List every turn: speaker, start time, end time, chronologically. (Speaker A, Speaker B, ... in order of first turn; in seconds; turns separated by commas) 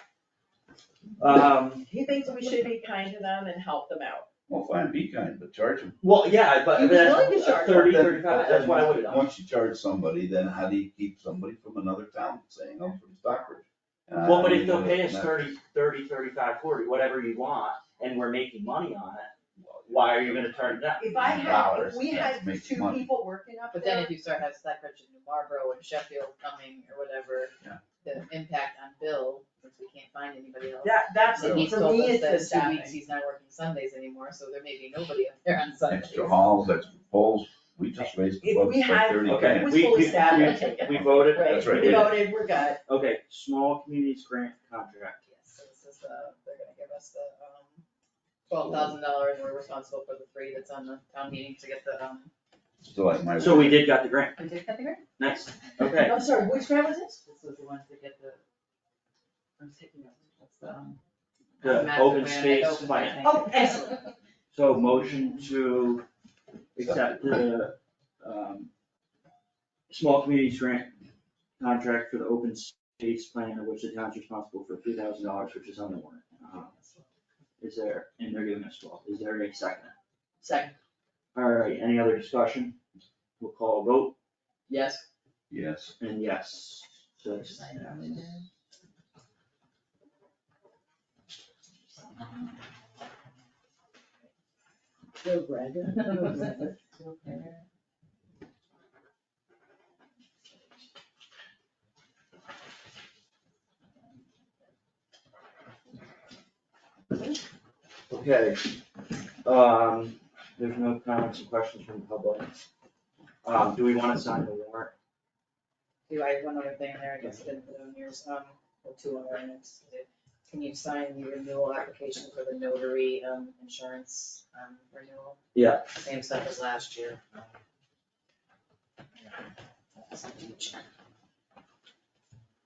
Speaker A: 1.2-1.9, Speaker B: 1.9-4.3, Speaker C: 4.5-6.0, Speaker A: 6.0-9.3, Speaker B: 6.7-8.8, Speaker C: 7.7-15.4, Speaker A: 14.2-19.3, Speaker C: 19.6-23.1, Speaker A: 19.9-21.1, Speaker B: 21.0-24.1, Speaker D: 23.8-36.4, Speaker B: 30.8-33.0, Speaker C: 31.4-31.8, Speaker C: 35.9-39.8, Speaker B: 38.4-42.8, Speaker A: 39.2-42.3, Speaker D: 40.1-41.0, Speaker C: 40.9-42.2, Speaker A: 42.9-45.2, Speaker D: 45.3-47.8, Speaker D: 48.5-52.3, Speaker C: 48.6-49.0, Speaker C: 52.8-53.9, Speaker A: 53.4-54.4, Speaker D: 54.4-55.1, Speaker A: 55.2-56.2, Speaker B: 56.0-57.2, Speaker D: 57.2-58.4, Speaker D: 59.6-61.0, Speaker D: 61.6-64.0, Speaker A: 61.6-63.3, Speaker B: 63.2-64.0, Speaker A: 64.5-66.1, Speaker A: 66.8-68.7, Speaker A: 69.9-71.0, Speaker A: 71.6-76.7, Speaker D: 76.5-77.1, Speaker A: 77.6-79.9, Speaker B: 80.4-80.7, Speaker A: 81.3-82.8, Speaker A: 83.4-84.2, Speaker B: 84.7-85.0, Speaker C: 85.5-86.0, Speaker A: 86.0-88.4, Speaker D: 87.6-88.1, Speaker B: 95.2-96.8, Speaker D: 96.2-97.6, Speaker A: 108.1-108.8, Speaker A: 109.5-112.5, Speaker A: 113.4-114.9, Speaker D: 116.1-127.6, Speaker A: 125.5-125.9, Speaker D: 129.9-130.8